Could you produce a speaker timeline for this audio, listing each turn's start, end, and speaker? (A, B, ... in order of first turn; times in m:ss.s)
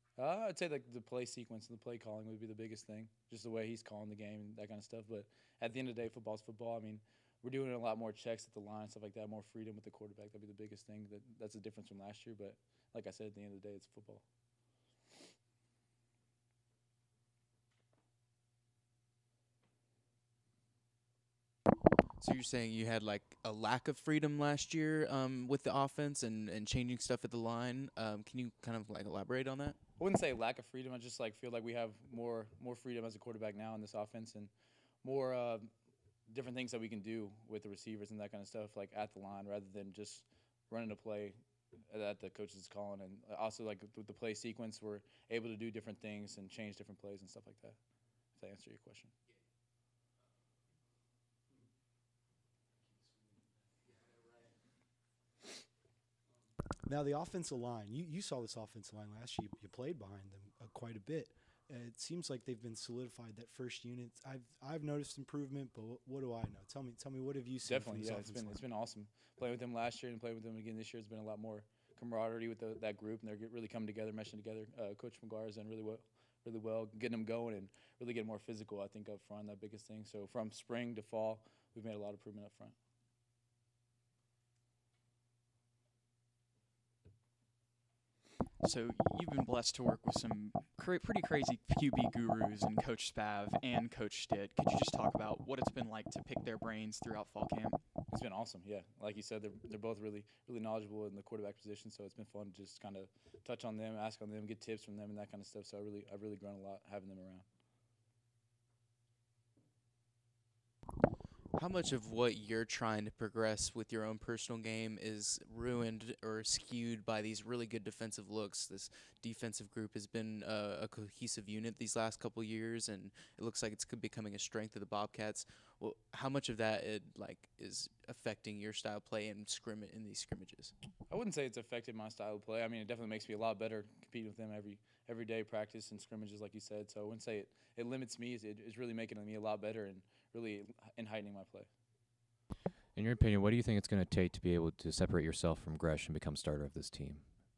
0:00.2-0:14.2 A
0:22.2-0:29.8 B
0:30.0-0:34.5 A
0:35.0-0:35.7 A
0:36.3-0:41.4 A
0:41.9-0:47.8 A
0:48.4-0:49.1 A
0:56.9-1:08.6 C
1:07.7-1:22.8 A
1:28.6-1:37.8 D
1:38.1-1:47.4 A
1:51.6-2:10.7 B
2:11.1-2:21.7 A
2:23.0-2:27.3 E